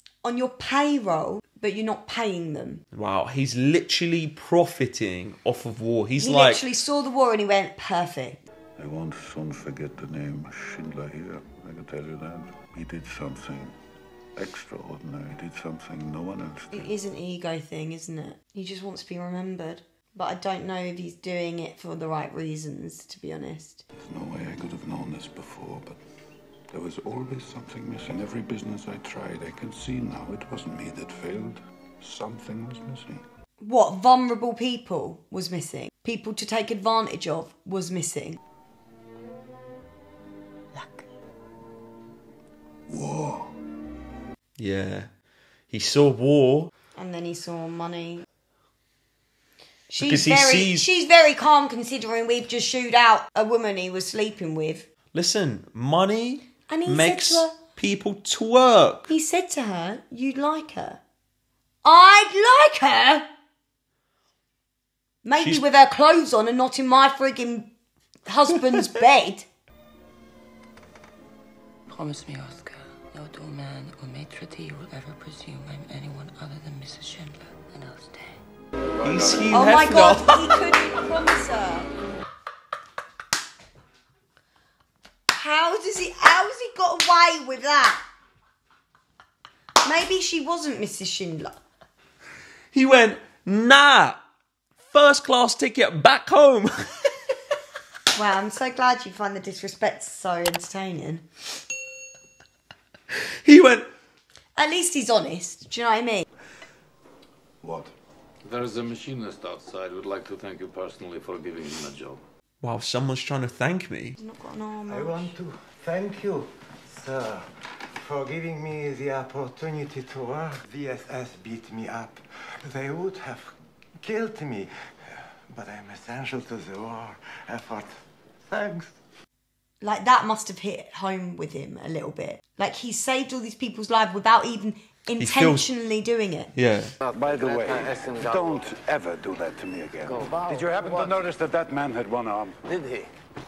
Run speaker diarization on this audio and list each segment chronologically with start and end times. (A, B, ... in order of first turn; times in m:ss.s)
0:00.2-0:02.8 A
0:02.9-0:06.6 B
0:06.2-0:08.4 A
0:08.8-0:13.8 C
0:14.4-0:16.9 C
0:16.7-0:23.8 A
0:24.0-0:26.0 C
0:26.7-0:33.2 C
0:33.6-0:38.4 A
0:40.7-0:41.0 D
0:42.9-0:43.5 C
0:44.6-0:45.1 B
0:45.7-0:46.7 B
0:46.9-0:48.2 A
0:49.9-0:54.9 A
0:50.0-0:50.8 B
0:55.1-0:59.1 B
0:56.7-0:57.6 A
0:59.1-1:01.0 A
1:01.8-1:03.3 A
1:05.2-1:07.7 A
1:05.4-1:05.6 B
1:08.2-1:09.5 A
1:11.9-1:18.4 D
1:19.0-1:20.6 B
1:19.5-1:21.9 A
1:25.3-1:28.0 A
1:29.8-1:31.6 A
1:32.7-1:34.2 B
1:34.8-1:37.1 B
1:38.1-1:41.2 A
1:43.4-1:43.9 B
1:44.6-1:46.2 A
1:47.6-1:47.9 C
1:48.4-1:52.2 E
1:52.6-1:54.2 B
1:54.2-1:55.3 A
1:54.9-1:57.4 F
1:58.0-2:04.7 F
2:05.5-2:07.9 F
2:08.5-2:08.9 F
2:09.8-2:16.5 A
2:15.2-2:15.6 B
2:16.5-2:16.9 B
2:17.0-2:18.7 E
2:17.1-2:22.6 C
2:20.0-2:21.1 E